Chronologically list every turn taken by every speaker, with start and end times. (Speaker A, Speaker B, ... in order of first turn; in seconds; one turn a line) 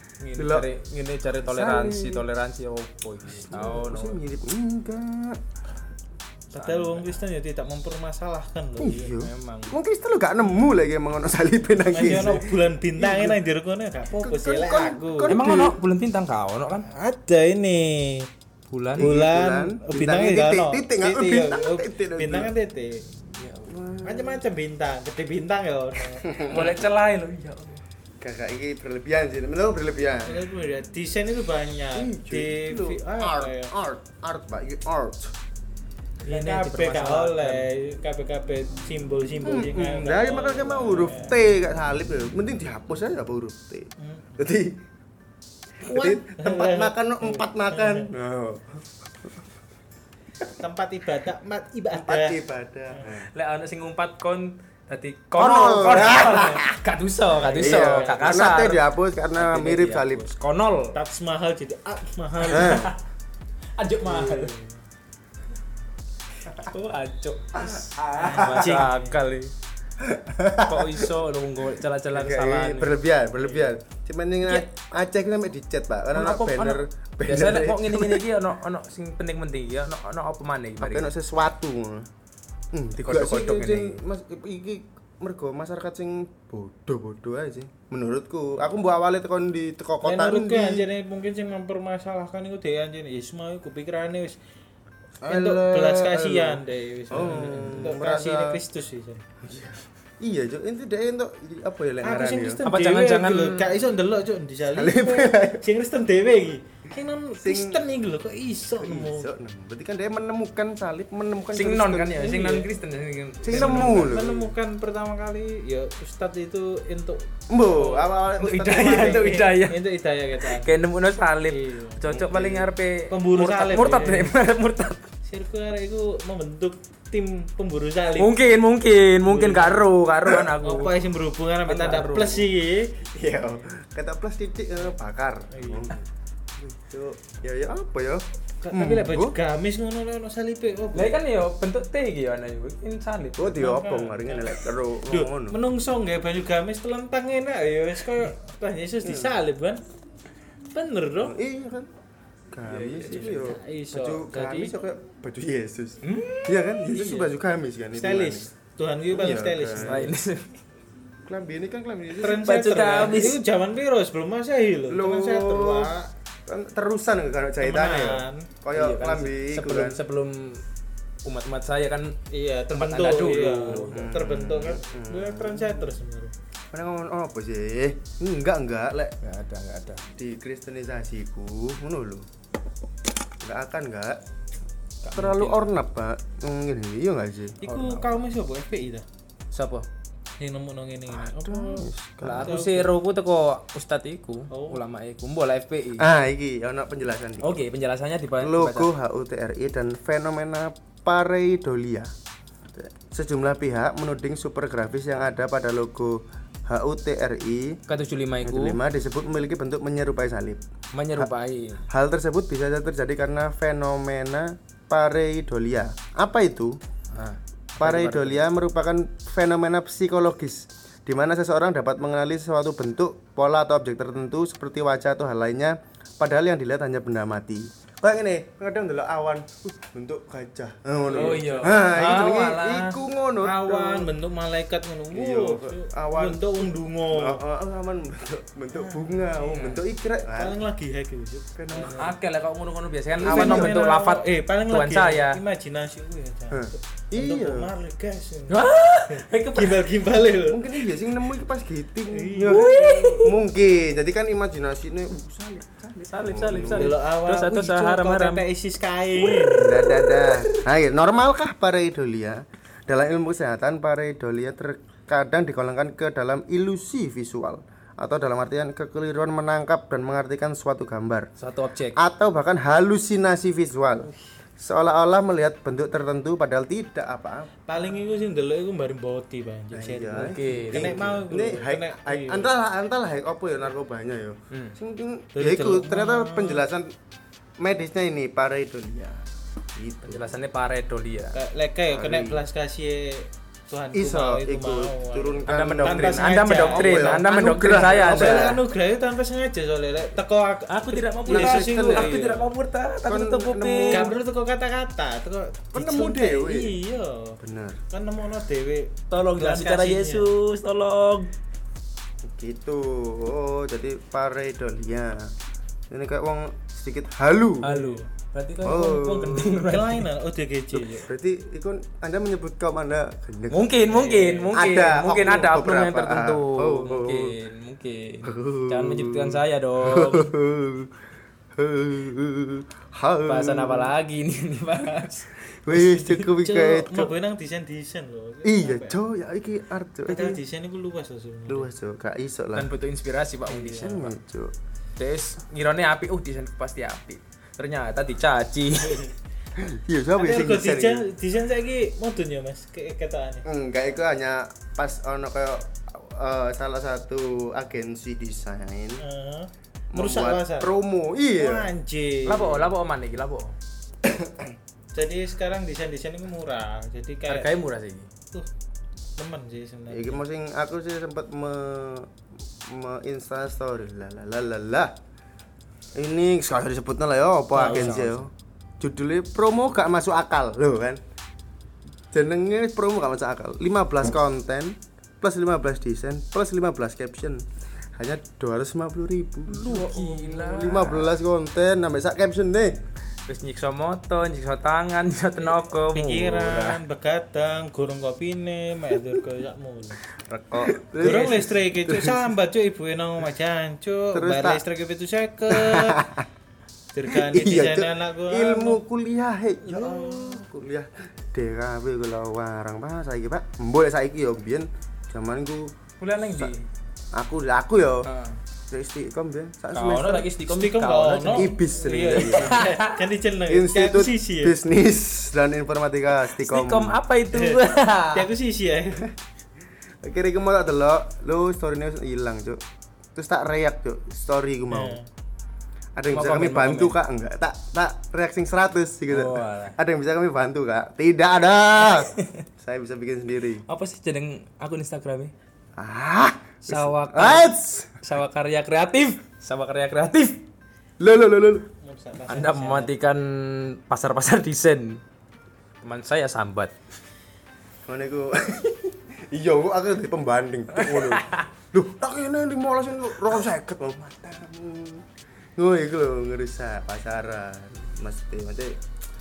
Speaker A: 0.2-4.2
Speaker B: 0.4-0.7
Speaker B: 1.4-2.2
Speaker B: 3.5-5.4
Speaker A: 6.5-7.1
Speaker C: 6.5-9.1
Speaker B: 8.8-13.4
Speaker A: 9.2-9.8
Speaker C: 11.9-15.3
Speaker A: 11.9-12.3
Speaker B: 14.1-15.8
Speaker A: 15.3-16.9
Speaker C: 16.9-18.3
Speaker A: 18.7-19.1
Speaker B: 18.9-22.5
Speaker C: 19.0-23.1
Speaker A: 23.4-23.7
Speaker B: 23.6-24.4
Speaker C: 24.0-26.3
Speaker B: 26.2-26.8
Speaker A: 26.5-27.8
Speaker B: 28.2-30.4
Speaker C: 30.2-33.7
Speaker B: 31.9-35.3
Speaker C: 36.2-41.4
Speaker A: 36.3-37.7
Speaker B: 39.4-44.8
Speaker C: 44.0-44.5
Speaker B: 45.8-49.3
Speaker C: 45.8-48.1
Speaker C: 50.6-52.4
Speaker B: 51.9-53.3
Speaker A: 53.3-60.9
Speaker B: 55.4-56.8
Speaker C: 57.4-58.7
Speaker B: 57.5-60.3
Speaker C: 60.9-62.9
Speaker B: 62.5-62.9
Speaker A: 62.5-63.0
Speaker A: 63.8-64.5
Speaker C: 64.1-64.8
Speaker A: 66.5-69.5
Speaker B: 67.5-68.8
Speaker C: 68.1-69.2
Speaker B: 70.0-71.1
Speaker A: 70.6-73.0
Speaker B: 72.1-78.2
Speaker A: 76.1-81.1
Speaker B: 80.8-82.1
Speaker B: 82.7-90.9
Speaker A: 83.0-84.0
Speaker C: 90.0-94.4
Speaker B: 95.2-98.6
Speaker C: 95.2-99.2
Speaker A: 97.2-97.8
Speaker B: 99.4-102.6
Speaker C: 102.0-109.3
Speaker A: 102.6-103.8
Speaker B: 104.7-105.6
Speaker B: 107.4-107.8
Speaker B: 108.8-112.6
Speaker A: 111.5-114.2
Speaker B: 113.4-114.5
Speaker C: 113.5-120.7
Speaker B: 117.5-119.4
Speaker A: 118.4-119.8
Speaker A: 120.5-125.1
Speaker C: 121.5-122.0
Speaker B: 122.0-122.7
Speaker C: 123.1-124.3
Speaker C: 125.2-128.3
Speaker A: 128.2-131.0
Speaker C: 129.2-129.8
Speaker C: 130.6-133.0
Speaker A: 131.7-132.5
Speaker B: 133.1-135.9
Speaker C: 135.5-136.0
Speaker B: 136.6-139.3
Speaker C: 138.6-141.2
Speaker A: 140.9-143.6
Speaker B: 143.4-145.6
Speaker C: 143.5-149.8
Speaker B: 149.0-149.3
Speaker C: 150.7-151.4
Speaker B: 151.2-151.9
Speaker B: 152.5-158.5
Speaker A: 152.7-153.6
Speaker C: 153.1-154.7
Speaker A: 156.0-156.5
Speaker C: 156.9-157.3
Speaker C: 157.9-160.1
Speaker B: 159.1-160.1
Speaker A: 159.8-160.5
Speaker B: 161.2-162.4
Speaker C: 162.2-166.1
Speaker A: 162.2-163.4
Speaker B: 164.9-165.9
Speaker B: 166.5-170.0
Speaker C: 167.6-168.5
Speaker A: 168.7-170.6
Speaker A: 171.2-172.1
Speaker C: 172.3-176.3
Speaker A: 172.7-174.0
Speaker B: 173.8-175.9
Speaker B: 176.7-179.1
Speaker A: 179.2-180.0
Speaker B: 180.1-182.3
Speaker B: 183.4-184.2
Speaker A: 185.0-185.7
Speaker B: 185.1-187.6
Speaker C: 187.6-189.0
Speaker A: 187.6-188.2
Speaker A: 189.5-189.8
Speaker C: 190.4-191.8
Speaker B: 191.1-192.6
Speaker A: 192.2-196.1
Speaker C: 192.4-192.9
Speaker C: 194.5-194.8
Speaker B: 196.0-197.6
Speaker A: 197.4-198.9
Speaker B: 198.4-202.1
Speaker B: 202.7-207.8
Speaker A: 207.9-208.8
Speaker B: 208.4-210.6
Speaker A: 210.9-211.8
Speaker B: 211.9-216.8
Speaker A: 217.1-218.4
Speaker B: 217.8-234.1
Speaker C: 231.1-231.7
Speaker A: 231.1-233.0
Speaker C: 233.4-237.4
Speaker B: 235.1-240.6
Speaker C: 238.7-242.1
Speaker A: 239.5-239.8
Speaker B: 241.5-242.1
Speaker A: 241.9-245.4
Speaker B: 243.2-243.8
Speaker C: 243.2-250.8
Speaker B: 246.5-247.7
Speaker A: 248.5-249.9
Speaker B: 250.5-257.0
Speaker C: 252.1-253.2
Speaker A: 252.4-253.3
Speaker A: 256.1-258.4
Speaker C: 256.6-259.9
Speaker A: 259.3-260.5
Speaker B: 259.5-271.3
Speaker A: 271.4-272.0
Speaker B: 271.9-274.1
Speaker B: 274.6-277.5
Speaker C: 277.7-282.5
Speaker B: 279.7-286.9
Speaker A: 280.1-281.0
Speaker A: 284.5-284.8
Speaker C: 285.3-286.6
Speaker B: 287.6-289.2
Speaker B: 289.7-290.3
Speaker A: 290.0-291.3
Speaker C: 291.3-297.3
Speaker B: 291.9-292.4
Speaker B: 293.9-298.6
Speaker A: 295.5-298.6
Speaker C: 297.8-302.5
Speaker A: 300.7-304.1
Speaker B: 301.3-302.2
Speaker B: 303.1-304.2
Speaker C: 303.9-307.4
Speaker B: 305.7-306.7
Speaker B: 307.4-307.8
Speaker C: 307.9-310.3
Speaker A: 309.1-311.3
Speaker B: 312.2-315.3
Speaker B: 315.9-317.6
Speaker A: 317.6-320.1
Speaker C: 317.6-318.1
Speaker B: 318.6-319.7
Speaker C: 319.7-321.1
Speaker B: 321.0-323.7
Speaker A: 323.5-330.3
Speaker C: 323.9-324.6
Speaker B: 324.5-327.3
Speaker B: 328.2-330.9
Speaker B: 331.6-333.9
Speaker A: 333.3-336.3
Speaker B: 335.6-337.1
Speaker C: 336.4-339.0
Speaker B: 338.4-340.4
Speaker C: 340.1-341.7
Speaker B: 341.5-342.7
Speaker A: 342.5-344.1
Speaker C: 343.5-343.9
Speaker B: 343.6-344.5
Speaker A: 345.0-349.1
Speaker C: 348.8-349.1
Speaker B: 349.6-351.0
Speaker C: 350.1-353.4
Speaker B: 353.4-359.0
Speaker C: 359.0-360.7
Speaker B: 359.9-361.7
Speaker C: 361.4-362.7
Speaker A: 362.2-363.5
Speaker B: 364.0-364.5
Speaker C: 364.9-367.5
Speaker A: 367.3-368.1
Speaker C: 369.2-370.2
Speaker B: 369.9-372.1
Speaker B: 372.6-374.9
Speaker B: 375.9-381.0
Speaker C: 377.6-378.0
Speaker A: 377.6-378.2
Speaker B: 382.1-387.4
Speaker B: 387.9-392.8
Speaker A: 389.5-391.1
Speaker A: 393.3-396.8
Speaker C: 395.9-400.0
Speaker A: 400.3-401.1
Speaker B: 400.5-402.3
Speaker C: 401.0-406.1
Speaker B: 404.1-404.6
Speaker B: 405.5-406.3
Speaker C: 406.9-408.8
Speaker B: 407.1-415.7
Speaker C: 409.6-410.4
Speaker A: 416.0-416.6
Speaker B: 416.2-416.5
Speaker B: 417.1-418.1
Speaker A: 418.0-418.4
Speaker B: 418.7-420.3
Speaker A: 419.7-421.6
Speaker C: 420.5-424.6
Speaker B: 421.3-422.6
Speaker A: 422.1-423.0
Speaker B: 423.5-427.0
Speaker A: 426.3-428.3
Speaker C: 427.3-429.1
Speaker B: 430.0-432.6
Speaker B: 433.1-435.0
Speaker C: 434.7-435.1
Speaker B: 435.9-443.6
Speaker A: 436.1-437.0
Speaker A: 439.1-439.8
Speaker A: 441.8-442.4
Speaker A: 443.7-445.3
Speaker B: 445.8-448.0
Speaker A: 446.6-450.4
Speaker B: 451.0-451.7
Speaker C: 451.8-452.9
Speaker A: 452.3-455.0
Speaker A: 455.8-456.7
Speaker B: 457.9-468.8
Speaker A: 460.7-461.4